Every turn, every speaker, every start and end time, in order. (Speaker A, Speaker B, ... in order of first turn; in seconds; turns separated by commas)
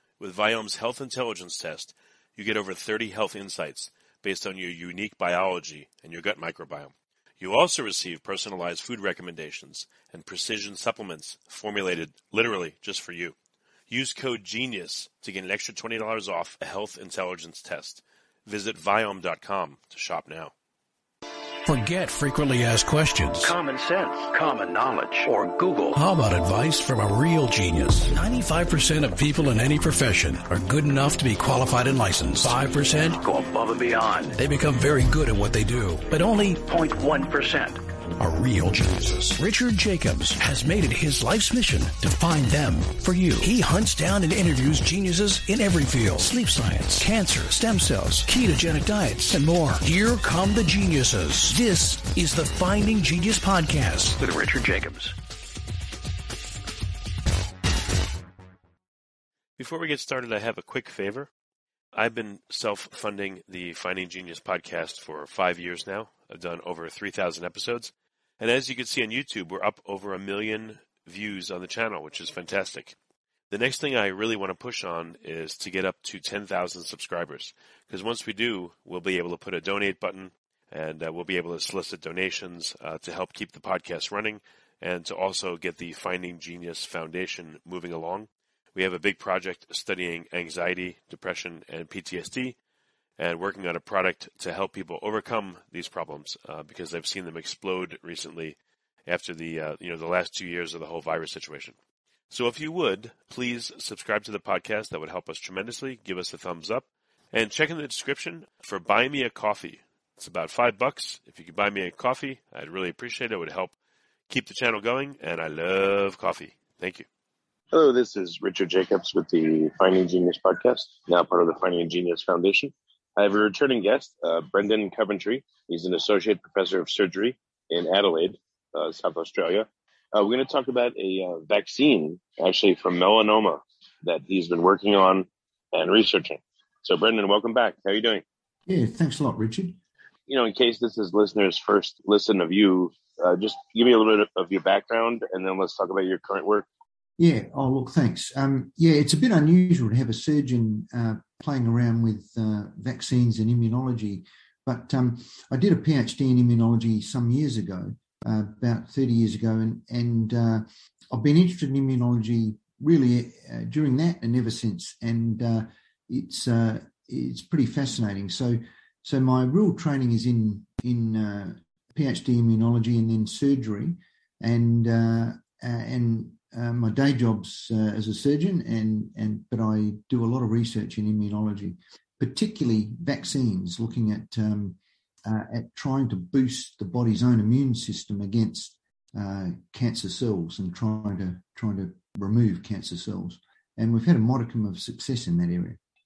Speaker A: 0.2-13.3, Speaker A: 13.9-20.5, Speaker B: 21.6-23.5, Speaker C: 23.4-26.0, Speaker B: 25.9-33.2, Speaker C: 33.2-34.4, Speaker B: 34.3-36.6, Speaker C: 36.5-37.8, Speaker B: 38.2-54.3, Speaker C: 54.2-55.1, Speaker A: 59.6-61.3, Speaker A: 61.9-73.0, Speaker A: 73.5-92.6, Speaker A: 93.2-101.8, Speaker A: 102.3-113.7, Speaker A: 114.3-117.1, Speaker D: 117.7-138.2, Speaker E: 138.7-139.8, Speaker D: 140.3-146.7, Speaker E: 147.2-195.8